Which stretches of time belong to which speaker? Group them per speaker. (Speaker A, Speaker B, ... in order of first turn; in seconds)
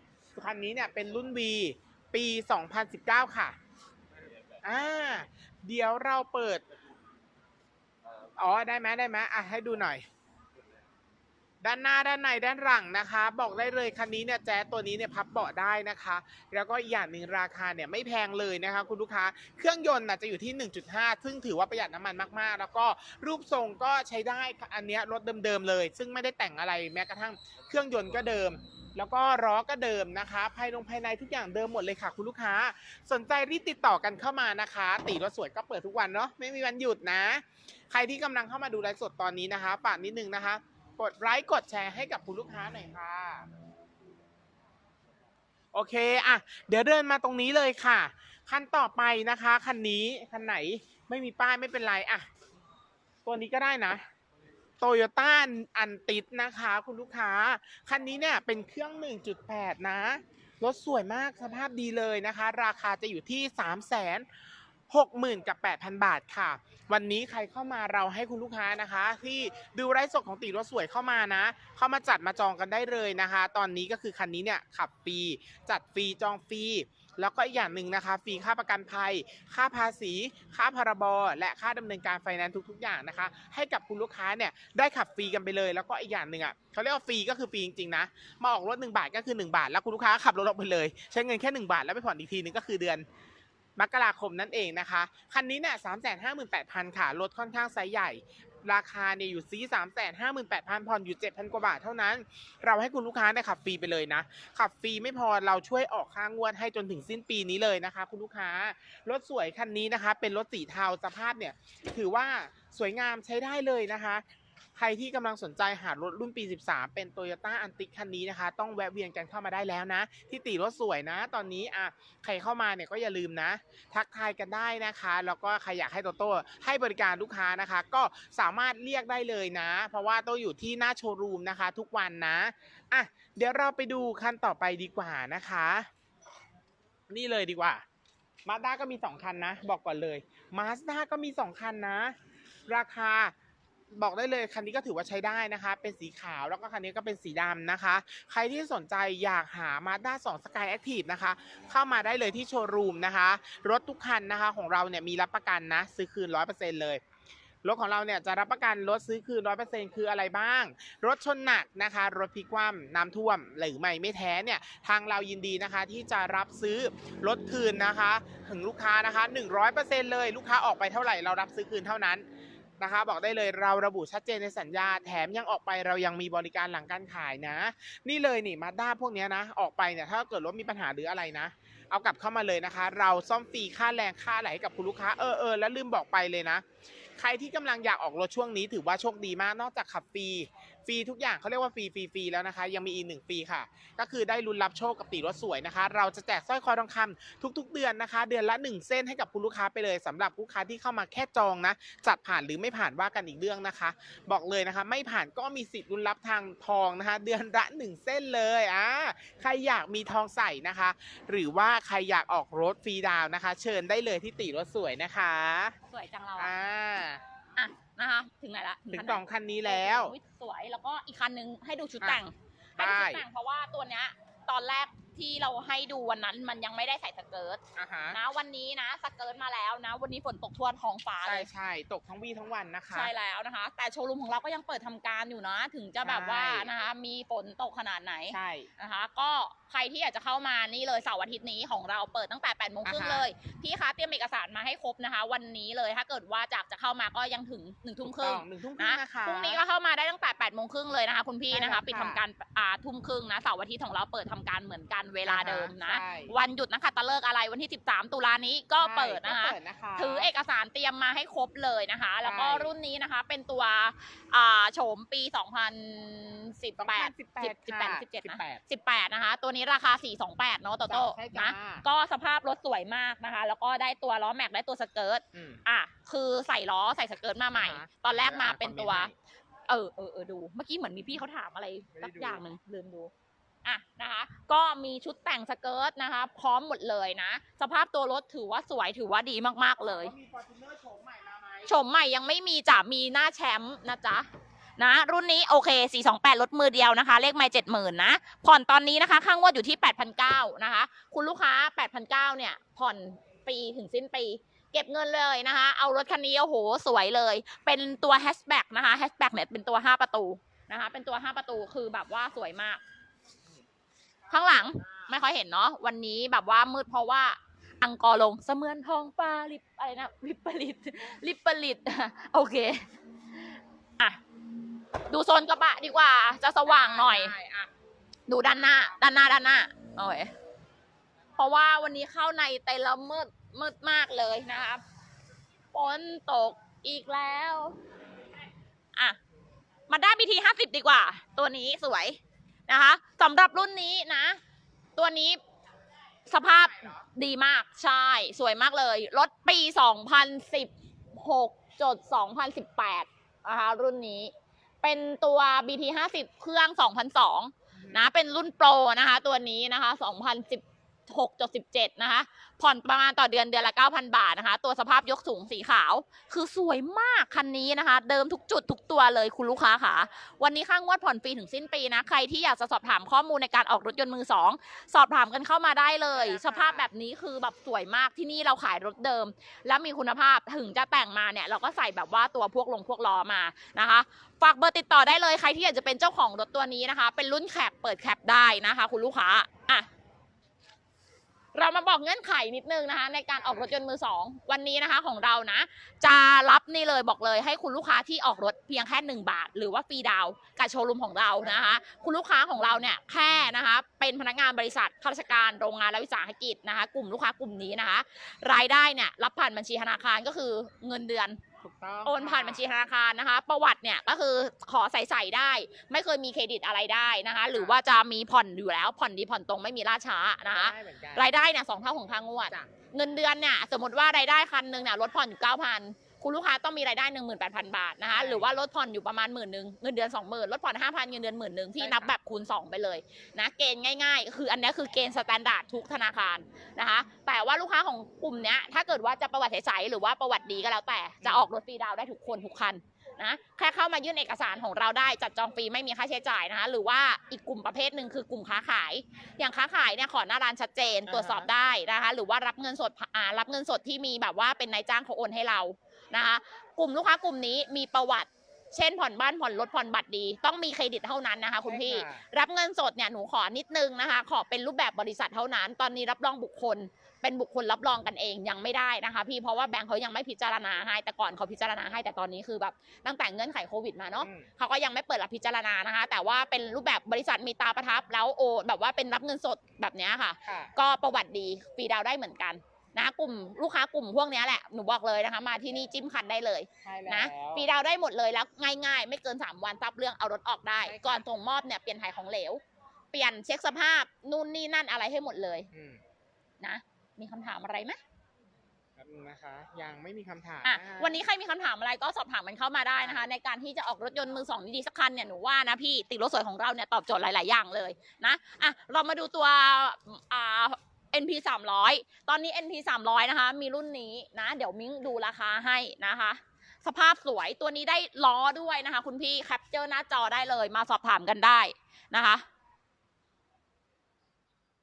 Speaker A: 0.3-3.6, 4.6-6.6, 8.4-10.0, 11.6-43.5, 45.7-52.3, 53.2-54.0, 54.8-64.2, 64.9-93.0, 93.8-114.2, 114.8-135.9, 137.1-137.8, 138.4-142.1, 142.7-143.3, 143.9-157.0, 157.6-172.2, 172.8-186.7, 187.2-215.8, 216.4-217.2, 218.9-220.1, 222.8-223.2, 227.8-228.2, 231.2-233.1, 236.0-236.7, 238.3-238.7, 242.8-243.2, 248.0-249.6, 251.5-252.2, 255.2-256.3, 258.8-260.3, 262.2-262.7, 266.8-268.6, 270.9-271.8, 275.3-275.6, 277.5-279.1, 281.9-282.4, 289.8-291.7, 326.6-327.7, 328.6-329.0, 346.7-347.0, 357.8-358.1, 376.1-376.9, 393.4-393.7, 401.4-401.8, 411.6-412.7, 420.4-421.3, 428.1-428.5, 431.8-432.1, 441.2-441.5, 451.1-451.5, 461.6-462.2, 474.2-474.5, 480.4-480.7, 486.8-487.7, 490.8-491.2, 495.7-496.0, 499.0-501.2, 502.9-503.3
Speaker B: 215.9-216.5, 217.6-231.5, 232.9-279.1, 279.7-283.1, 283.6-290.1, 291.6-294.3, 294.8-312.8, 314.3-322.9, 325.1-327.3, 328.3-330.3, 331.4-334.8, 335.7-337.8, 339.9-344.4, 345.0-345.4, 346.3-389.9, 391.5-411.4, 412.0-492.6, 493.1-495.7, 496.6-498.0, 500.6-522.4